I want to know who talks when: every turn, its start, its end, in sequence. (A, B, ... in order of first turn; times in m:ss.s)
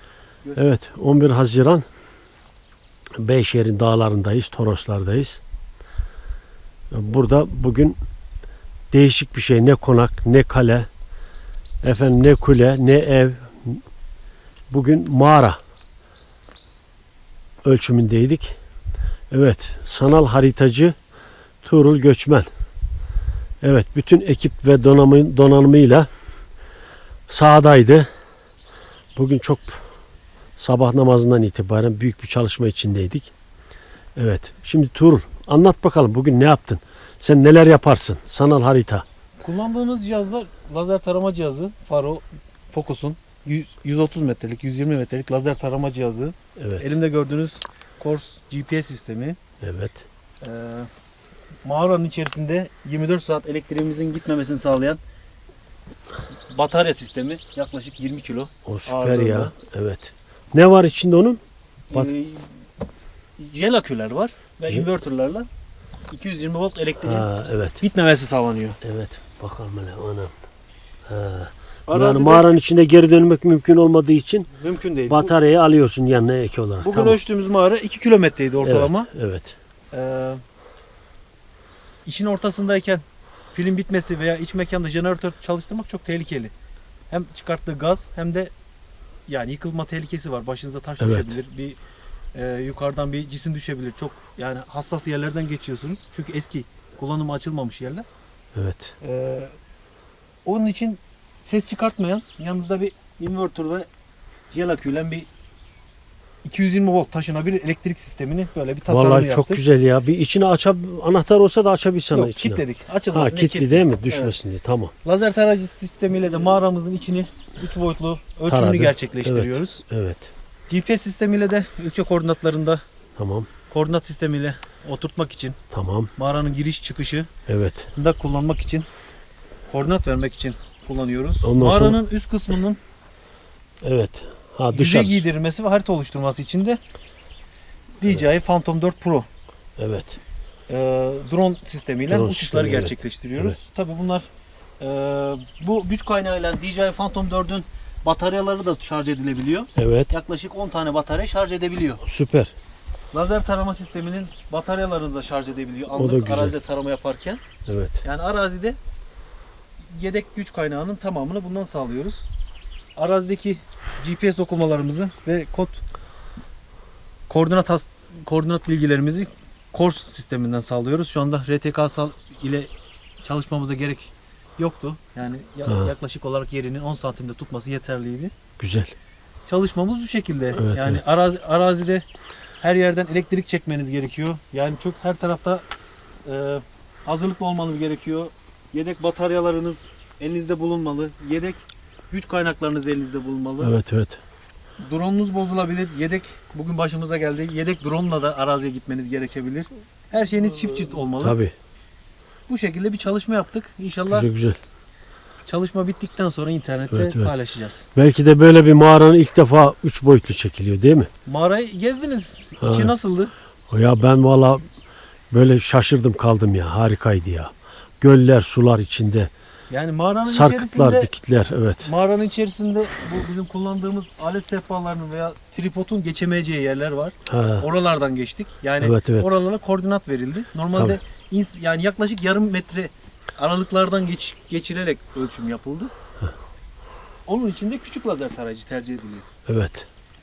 0:00.6-0:01.8 A
0:03.2-0:05.4 A
0:06.9-0:08.0 A
0:08.9-0:10.9 A
0:11.8-0:13.8 A
0:14.7-0:15.6 A
0:17.6-0:18.6 A
0:19.3-0:21.0 A
0:21.6-0:22.5 A
0:23.6-0:26.1 A
0:27.3-0:28.1 A
0:29.1-0:29.8 A
0:30.6-0:33.3 A
0:34.2-0:39.0 A
0:39.4-0:49.4 B
0:46.6-0:46.9 A
0:49.6-0:50.0 A
0:50.4-0:50.9 B
0:51.6-0:55.0 B
0:56.5-0:59.5 B
0:58.6-1:01.4 A
1:01.9-1:02.6 B
1:03.4-1:05.5 B
1:06.1-1:07.3 B
1:07.0-1:07.8 A
1:07.8-1:08.8 B
1:08.8-1:10.3 A
1:11.1-1:14.5 A
1:11.9-1:12.5 B
1:14.5-1:15.3 B
1:15.1-1:17.2 A
1:16.8-1:19.1 B
1:18.6-1:19.6 A
1:19.9-1:20.4 B
1:22.0-1:26.5 B
1:27.1-1:28.5 B
1:29.3-1:31.8 B
1:31.0-1:31.4 A
1:32.3-1:38.0 B
1:38.6-1:38.9 A
1:39.0-1:39.5 B
1:40.4-1:43.9 B
1:44.5-1:45.3 B
1:46.4-1:49.6 B
1:48.9-1:54.9 A
1:52.1-1:54.3 B
1:55.0-1:59.8 B
1:58.5-2:00.3 A
2:00.7-2:02.8 B
2:03.2-2:03.5 A
2:03.7-2:05.6 B
2:05.7-2:06.1 A
2:06.2-2:07.3 B
2:07.5-2:07.9 A
2:07.9-2:08.9 B
2:09.7-2:12.8 B
2:11.4-2:12.0 A
2:13.8-2:15.2 A
2:14.7-2:16.8 B
2:18.0-2:19.3 B
2:19.8-2:20.2 A
2:20.7-2:24.3 B
2:22.1-2:23.6 A
2:24.8-2:32.0 B
2:29.8-2:30.1 A
2:32.0-2:32.5 A
2:33.1-2:37.4 B
2:35.9-2:36.6 A
2:37.7-2:38.0 A
2:38.0-2:38.8 B
2:39.9-2:42.3 B
2:43.0-2:45.8 B
2:47.3-2:52.7 B
2:53.2-2:58.3 B
2:58.6-2:58.9 A
2:59.5-3:02.0 B
3:00.6-3:01.0 A
3:02.6-3:05.6 B
3:06.2-3:13.7 B
3:13.6-3:14.2 A
3:14.8-3:21.4 B
3:21.2-3:21.5 A
3:22.5-3:24.3 B
3:24.1-3:24.6 A
3:25.4-3:27.8 B
3:26.9-3:27.3 A
3:27.9-3:31.1 A
3:31.2-3:33.3 B
3:32.6-3:32.9 A
3:33.7-3:34.6 A
3:35.3-3:39.3 A
3:39.7-3:41.1 B
3:40.3-3:41.9 A
3:41.8-3:55.9 B
3:47.3-3:47.6 A
3:48.8-3:49.3 A
3:57.2-3:59.3 B
3:59.5-3:59.9 A